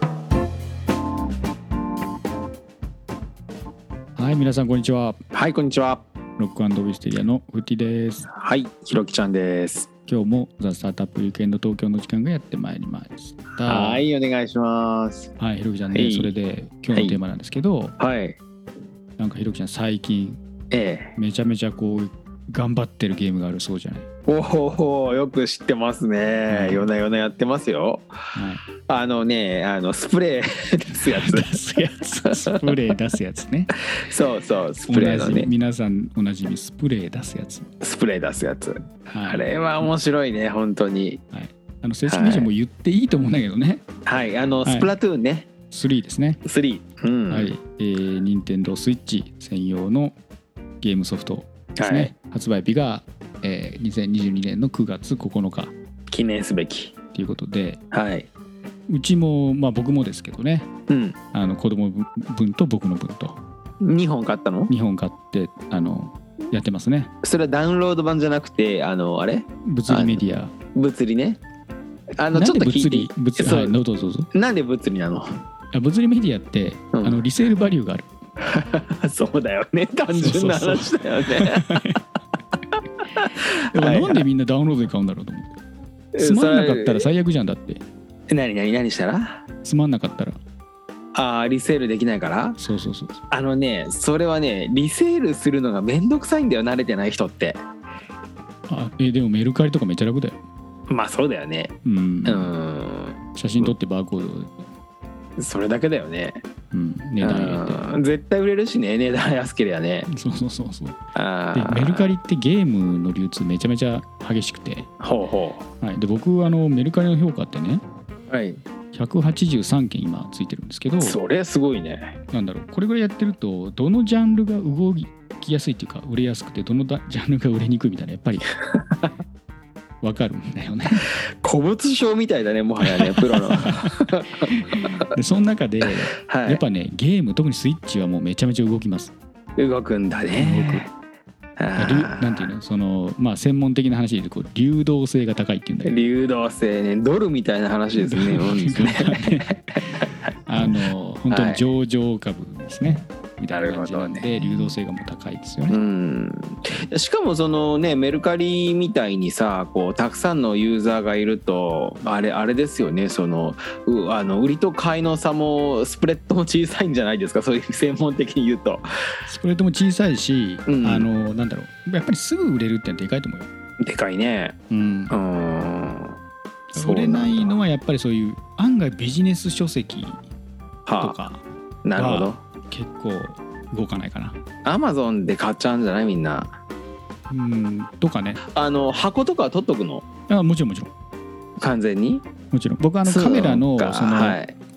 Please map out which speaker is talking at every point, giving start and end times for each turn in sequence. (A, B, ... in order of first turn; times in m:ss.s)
0:04.2-0:05.2 A
0:05.3-0:06.0 B
0:06.4-0:08.3 A
0:08.3-0:09.9 B
0:10.1-0:14.0 A
0:13.6-0:15.3 B
0:15.4-0:17.9 A
0:15.9-0:16.3 B
0:16.9-0:17.2 B
0:18.0-0:18.4 B
0:19.2-0:20.4 A
0:20.7-0:21.1 B
0:21.2-0:24.1 A
0:24.3-0:28.0 B
0:26.5-0:26.9 A
0:28.3-0:28.6 A
0:28.9-0:31.6 B
0:31.0-0:33.7 A
0:33.9-0:35.5 B
0:34.9-0:37.7 A
0:37.8-0:41.2 B
0:39.1-0:39.5 A
0:41.3-0:43.8 A
0:42.1-0:42.5 B
0:44.0-0:45.5 B
0:44.6-0:44.9 A
0:45.7-0:46.4 A
0:46.4-0:47.5 B
0:47.3-0:50.2 A
0:50.8-0:55.7 A
0:51.8-0:52.1 B
0:56.1-0:56.9 B
0:57.1-0:57.8 A
0:57.9-0:58.3 B
0:58.9-1:00.7 A
1:00.9-1:01.2 B
1:01.3-1:03.4 A
1:03.8-1:04.7 B
1:04.7-1:07.1 A
1:07.2-1:10.2 B
1:09.6-1:10.5 A
1:10.7-1:11.4 B
1:12.2-1:13.8 B
1:12.3-1:14.3 A
1:14.3-1:15.4 B
1:15.7-1:18.1 A
1:16.9-1:17.2 B
1:18.5-1:22.0 B
1:20.1-1:22.0 A
1:23.1-1:24.2 B
1:23.7-1:25.6 A
1:26.1-1:27.1 B
1:26.2-1:27.8 A
1:28.3-1:29.4 B
1:29.6-1:30.4 A
1:31.1-1:32.6 B
1:32.6-1:33.2 A
1:33.3-1:37.6 B
1:38.7-1:40.4 A
1:40.9-1:41.7 B
1:41.8-1:42.5 A
1:42.2-1:43.7 B
1:43.4-1:44.6 A
1:45.4-1:46.4 B
1:46.7-1:47.8 A
1:47.2-1:50.1 B
1:50.1-1:51.0 A
1:51.1-1:52.1 B
1:51.5-1:54.9 A
1:55.0-1:55.6 B
1:55.8-1:57.8 A
1:58.3-1:58.6 B
1:58.9-2:01.2 A
2:01.0-2:02.2 B
2:02.3-2:08.4 A
2:10.0-2:11.1 A
2:11.4-2:14.5 B
2:13.1-2:13.9 A
2:14.4-2:19.1 A
2:16.3-2:16.6 B
2:19.6-2:20.9 B
2:20.4-2:20.8 A
2:21.6-2:22.5 B
2:21.8-2:26.0 A
2:25.8-2:30.0 B
2:28.0-2:35.8 A
2:31.3-2:31.6 B
2:33.5-2:34.6 B
2:35.7-2:48.8 B
2:49.3-2:53.5 A
2:50.6-2:51.1 B
2:53.8-2:54.6 B
2:54.7-2:55.1 A
2:55.1-2:56.2 B
2:56.7-3:00.2 A
2:56.8-2:57.6 B
3:00.8-3:01.2 B
3:01.0-3:01.4 A
3:01.8-3:02.4 B
3:02.0-3:04.4 A
3:04.6-3:06.5 B
3:07.3-3:08.4 A
3:08.5-3:10.0 B
3:10.3-3:10.9 A
3:11.6-3:12.2 B
3:12.5-3:14.4 A
3:13.0-3:14.5 B